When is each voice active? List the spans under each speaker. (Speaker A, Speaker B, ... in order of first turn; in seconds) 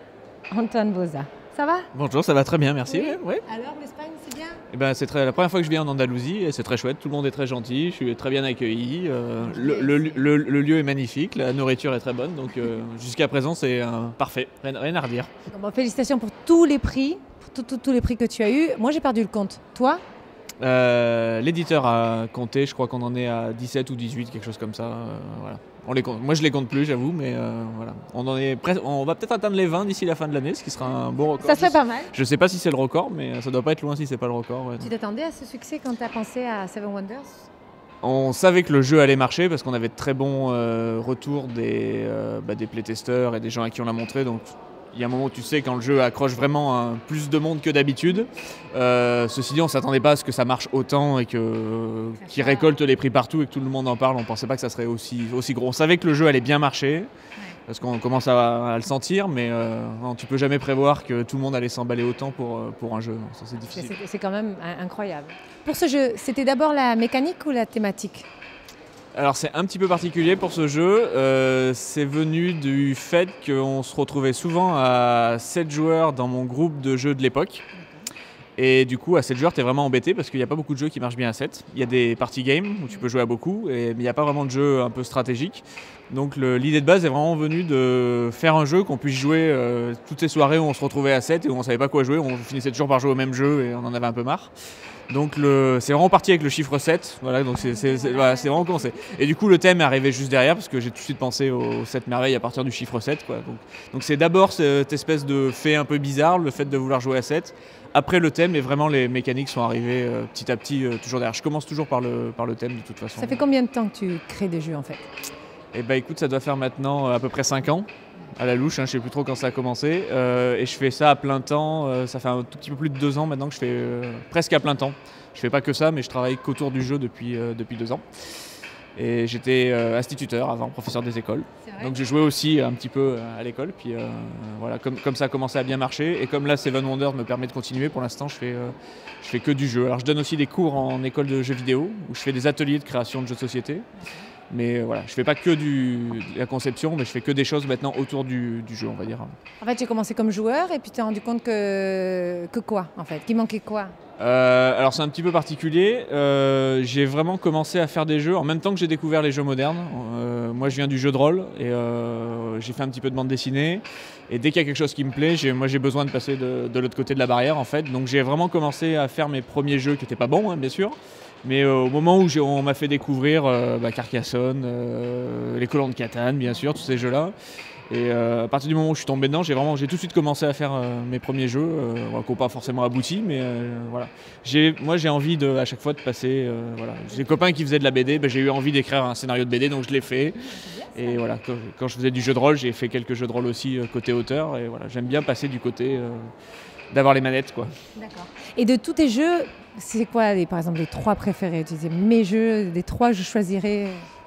Speaker A: 0.5-1.9, 2.9-4.6, 9.4-10.3, 15.5-20.0, 31.2-32.1, 34.8-37.5, 52.2-52.8, 63.6-68.3, 113.2-115.0, 131.6-132.0, 149.6-154.0, 190.5-191.2, 198.0-204.1
Speaker B: 1.9-3.5, 4.7-15.3, 20.6-34.9, 38.0-57.1, 57.7-63.9, 69.2-77.7, 78.6-94.5, 95.1-113.4, 115.7-128.0, 129.0-143.9, 144.5-149.3, 154.2-177.3, 177.9-196.3, 196.9-197.7